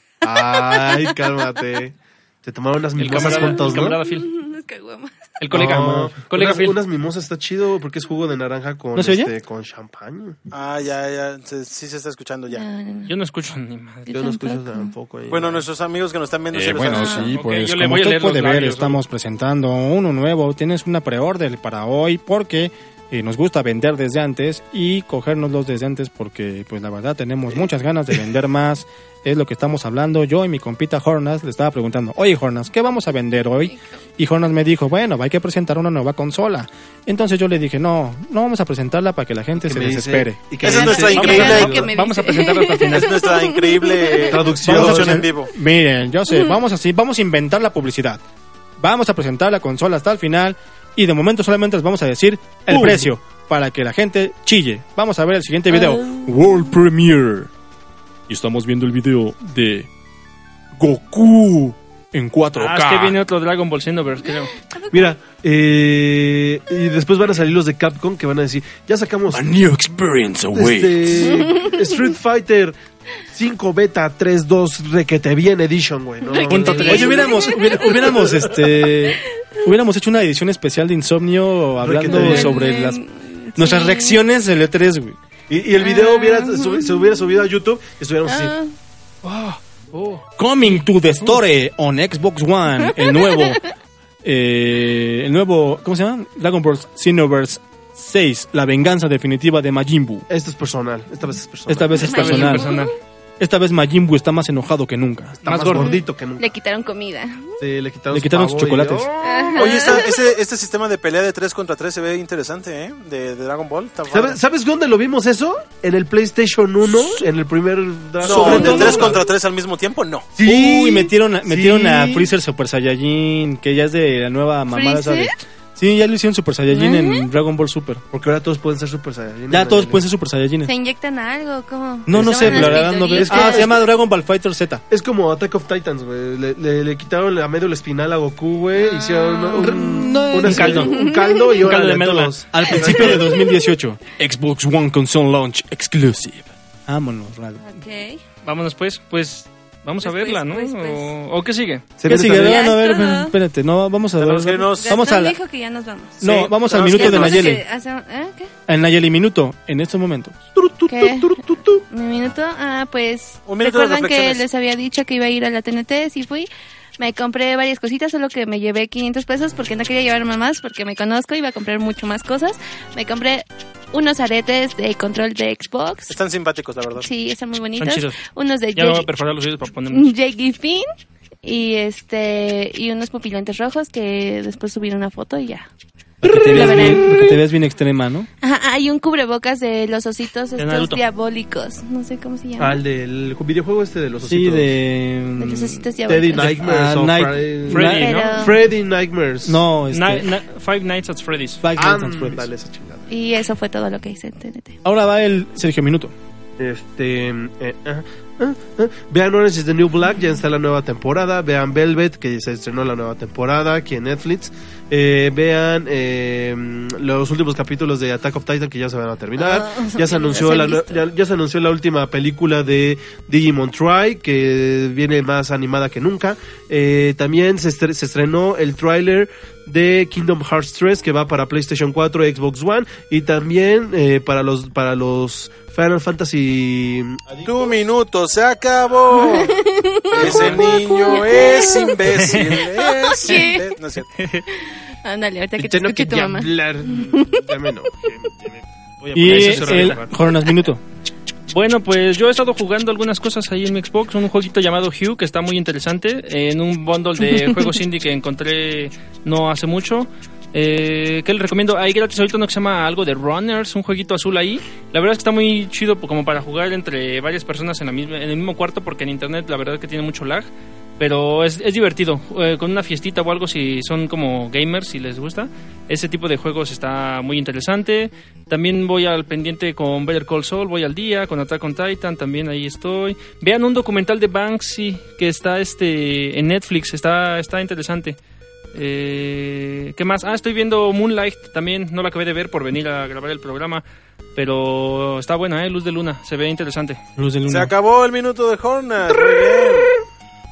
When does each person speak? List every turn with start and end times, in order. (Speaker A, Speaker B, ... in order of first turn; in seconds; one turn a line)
Speaker A: 0.2-4.0
Speaker B: 0.3-1.2
Speaker C: 3.0-4.2
Speaker B: 3.1-5.2
Speaker C: 5.4-6.8
Speaker A: 5.5-10.4
Speaker D: 8.9-9.3
Speaker E: 10.5-12.6
Speaker B: 12.5-13.1
Speaker C: 13.1-14.2
Speaker B: 14.1-14.9
Speaker A: 14.1-15.7
Speaker E: 15.3-17.2
Speaker D: 16.5-40.6
Speaker B: 16.9-17.3
Speaker C: 17.1-19.0
Speaker A: 39.6-41.9
Speaker E: 40.6-41.8
Speaker B: 40.6-44.6
Speaker C: 41.1-43.3
Speaker E: 42.9-45.5
Speaker A: 44.3-45.3
Speaker D: 44.6-48.2
Speaker B: 46.3-46.6
Speaker D: 48.8-57.5
Speaker A: 52.7-53.1
Speaker B: 55.7-56.7
Speaker D: 58.3-59.9
Speaker D: 60.8-63.2
Speaker C: 62.5-64.5
Speaker B: 64.7-65.0
Speaker A: 64.9-69.4
Speaker D: 69.3-71.4
Speaker A: 70.5-72.7
Speaker B: 71.4-71.8
Speaker A: 73.3-78.8
Speaker B: 76.2-78.0
Speaker D: 76.5-83.0
Speaker A: 81.8-82.6
Speaker B: 82.1-84.2
Speaker D: 83.5-85.2
Speaker A: 85.5-88.5
Speaker B: 85.8-87.4
Speaker B: 88.2-88.7
Speaker D: 90.4-93.6
Speaker B: 92.9-93.5
Speaker D: 94.2-100.2
Speaker A: 100.3-102.1
Speaker D: 101.7-102.7
Speaker C: 102.0-102.9
Speaker B: 102.0-102.9
Speaker D: 103.4-105.4
Speaker A: 105.4-106.5
Speaker C: 105.4-106.0
Speaker B: 105.7-107.5
Speaker A: 107.6-110.0
Speaker D: 108.1-109.1
Speaker B: 109.2-110.2
Speaker E: 109.5-114.4
Speaker A: 114.1-119.3
Speaker E: 118.2-120.3
Speaker D: 118.3-119.0
Speaker B: 118.6-118.9
Speaker A: 120.3-122.3
Speaker D: 120.4-128.0
Speaker B: 124.7-125.4
Speaker B: 126.7-127.3
Speaker A: 128.1-130.0
Speaker D: 129.5-130.7
Speaker B: 130.6-133.7
Speaker D: 132.1-134.8
Speaker A: 132.1-133.8
Speaker A: 134.9-143.2
Speaker B: 138.7-140.1
Speaker D: 139.5-140.8
Speaker C: 140.4-143.1
Speaker B: 140.7-141.6
Speaker D: 142.5-147.7
Speaker B: 147.6-148.2
Speaker C: 148.4-151.9
Speaker B: 150.0-151.1
Speaker A: 152.0-152.7
Speaker D: 152.1-155.4
Speaker B: 152.3-153.3
Speaker E: 154.2-154.9
Speaker B: 154.7-158.5
Speaker D: 156.2-157.6
Speaker E: 156.2-157.6
Speaker D: 158.7-160.4
Speaker A: 160.5-161.8
Speaker B: 160.9-161.4
Speaker B: 161.9-166.5
Speaker E: 163.4-164.4
Speaker B: 167.0-176.2
Speaker E: 176.1-177.1
Speaker B: 176.9-179.1
Speaker C: 177.8-180.1
Speaker B: 179.9-180.8
Speaker B: 181.4-185.7
Speaker D: 186.2-188.3
Speaker A: 186.2-187.0
Speaker B: 186.2-187.4
Speaker B: 188.4-192.8
Speaker C: 190.6-191.0
Speaker A: 192.6-194.7
Speaker D: 194.2-198.2
Speaker B: 195.4-196.6
Speaker A: 196.1-199.6
Speaker C: 197.7-198.5
Speaker B: 197.9-198.6
Speaker D: 199.4-200.3
Speaker C: 199.9-201.6
Speaker D: 201.6-202.5
Speaker A: 201.8-203.1
Speaker B: 203.1-204.8
Speaker D: 204.8-206.1
Speaker A: 206.6-237.7
Speaker B: 219.4-221.1
Speaker E: 237.4-239.6
Speaker B: 239.1-242.0
Speaker E: 240.1-244.1
Speaker C: 240.2-240.7
Speaker C: 242.0-242.7
Speaker B: 242.8-243.7
Speaker C: 244.2-244.4
Speaker B: 245.0-247.5
Speaker A: 245.6-250.1
Speaker D: 249.1-250.8
Speaker C: 249.2-250.1
Speaker C: 251.5-270.5
Speaker C: 271.0-288.2
Speaker C: 288.7-293.8
Speaker C: 294.4-297.0
Speaker D: 297.2-297.7
Speaker E: 297.5-299.9